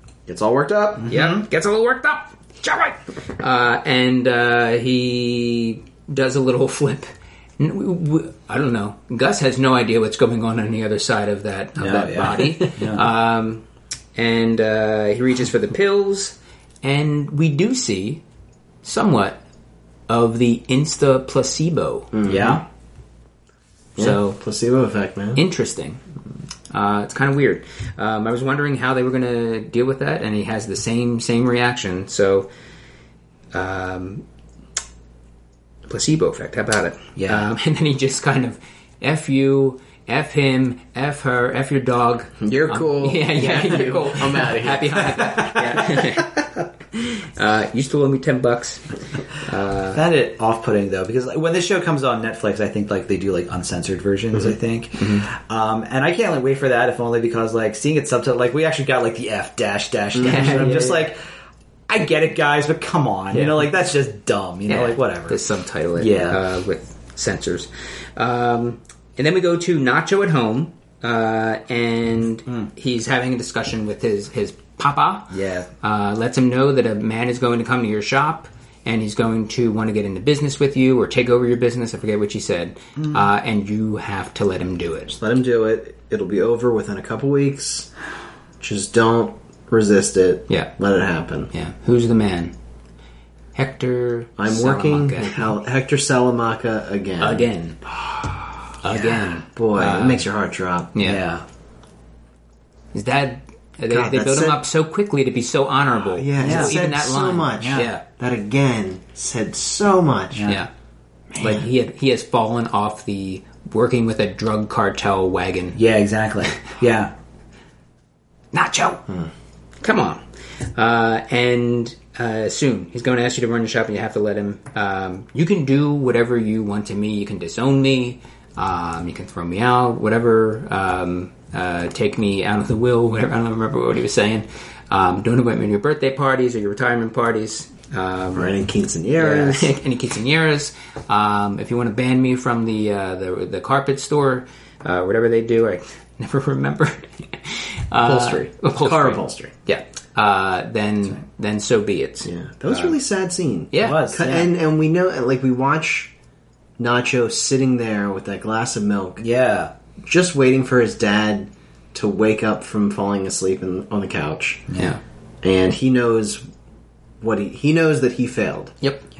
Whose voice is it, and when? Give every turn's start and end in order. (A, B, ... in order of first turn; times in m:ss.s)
0:00.3-0:01.1 A
0:01.0-0:01.4 B
0:01.1-0:18.2 C
0:11.8-0:13.1 B
0:11.9-0:12.7 A
0:18.8-0:19.4 C
0:20.1-0:22.1 C
0:22.1-0:22.6 A
0:22.3-0:22.6 B
0:24.0-0:24.4 C
0:24.0-0:25.4 A
0:25.4-0:26.0 C
0:26.7-0:32.5 C
0:33.5-0:34.2 C
0:35.9-0:46.4 C
0:37.2-0:37.4 B
0:42.4-0:45.2 A
0:45.1-0:46.2 B
0:46.9-0:50.0 C
0:49.9-1:01.2 B
1:00.2-1:01.0 C
1:00.2-1:00.9 A
1:01.9-1:05.4 B
1:03.3-1:03.6 C
1:04.7-1:25.2 C
1:06.0-1:06.4 B
1:15.3-1:15.7 B
1:25.2-1:27.9 A
1:28.6-1:31.5 A
1:31.5-1:32.5 C
1:33.6-1:35.5 C
1:34.4-1:37.5 A
1:37.2-1:37.8 C
1:38.8-1:40.2 C
1:38.9-1:40.9 A
1:40.9-1:41.2 C
1:41.0-1:41.4 B
1:42.9-1:48.0 C
1:43.9-1:44.6 A
1:46.2-1:50.5 A
1:46.4-1:46.8 B
1:47.6-1:47.9 B
1:50.3-1:50.6 B
1:51.3-1:51.7 A
1:51.4-1:55.8 C
1:55.8-1:57.1 B
1:58.5-1:59.0 C
1:59.8-2:00.2 C
2:00.8-2:18.5 C
2:18.3-2:19.7 A
2:19.2-2:32.9 C
2:28.0-2:29.5 A
2:32.2-2:36.1 A
2:33.7-2:34.0 C
2:33.8-2:34.5 B
2:36.8-2:39.2 A
2:39.2-2:39.7 B
2:40.0-2:44.7 A
2:44.7-2:45.0 B
2:45.4-2:46.4 A
2:47.2-2:48.8 A